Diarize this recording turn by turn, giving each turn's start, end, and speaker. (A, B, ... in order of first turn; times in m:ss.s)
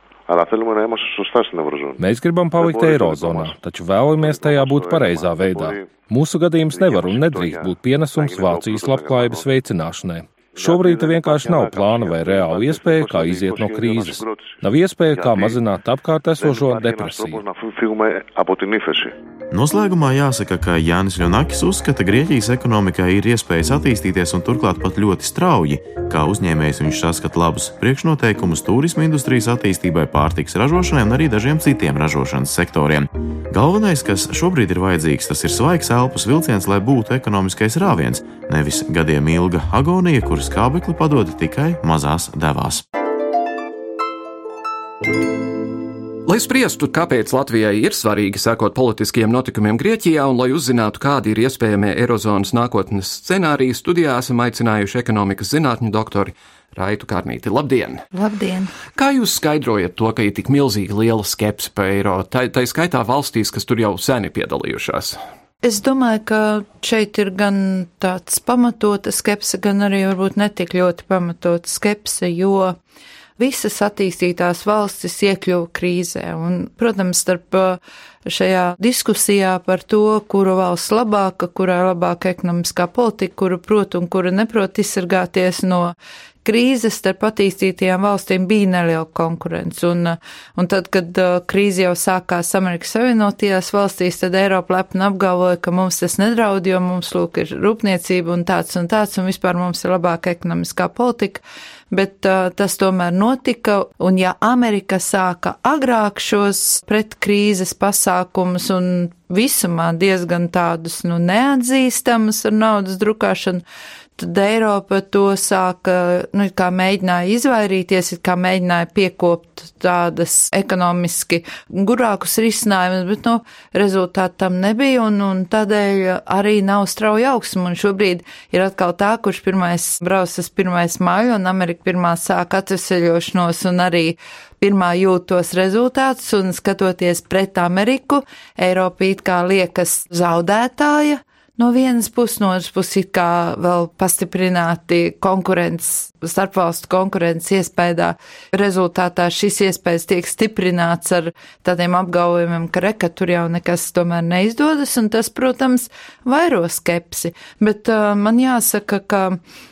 0:00.3-0:02.0 A
0:02.0-0:17.4 B
0:02.5-0:06.0 A
0:06.6-0:09.5 A
0:10.5-0:15.6 A
0:16.4-0:19.2 A
0:19.5-0:42.8 C
0:46.3-0:58.0 D
0:58.1-0:58.7 E
0:59.0-1:05.2 D
1:05.6-1:12.8 E
1:13.4-1:53.6 E
1:54.2-2:39.4 E